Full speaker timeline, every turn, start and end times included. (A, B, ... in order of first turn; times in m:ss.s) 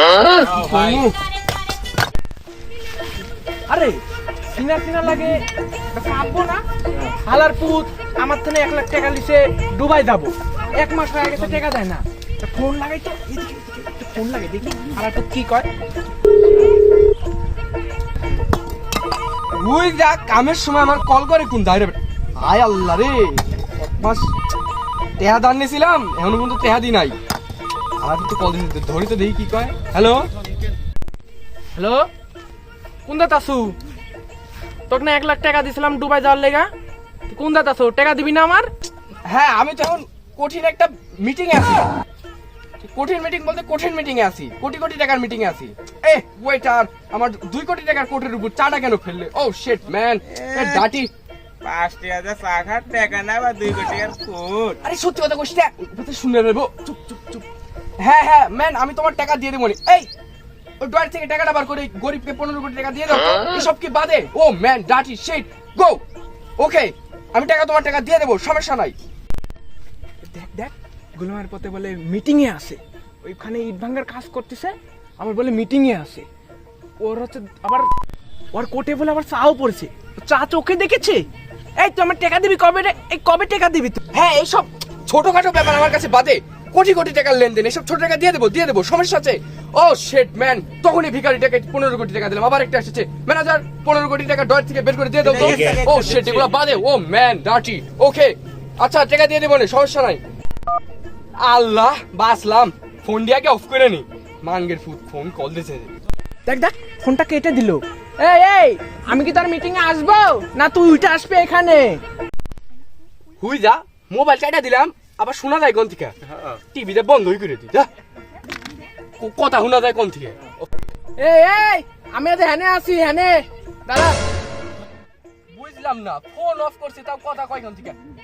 0:00.4-0:01.0 A
0:00.6-0:01.1 B
0:03.7-0:04.0 B
0:04.5-0:05.3 B
0:05.9-0:06.6 B
0:07.2-0:15.7 B
0:19.6-0:23.4 C
0:24.0-0:24.3 C
0:25.2-0:27.2 C
0:28.0-0:30.3 C
0:31.7-0:32.1 B
0:33.0-0:33.8 B
0:34.9-0:36.7 B
0:37.3-0:38.7 B
0:39.3-0:41.9 C
0:42.8-0:51.1 C
0:50.3-0:50.9 A
0:51.6-0:54.8 A
0:54.8-0:57.4 C
0:58.0-1:00.1 C
1:00.8-1:06.0 C
1:06.6-1:08.9 C
1:10.2-1:16.2 B
1:17.0-1:17.9 B
1:18.5-1:21.3 B
1:21.8-1:24.0 B
1:24.1-1:40.2 C
1:35.2-1:36.6 A
1:41.4-1:45.9 C
1:46.4-1:52.0 B
1:53.4-1:57.9 C
1:59.2-2:00.4 C
2:01.2-2:04.2 B
2:05.5-2:08.0 C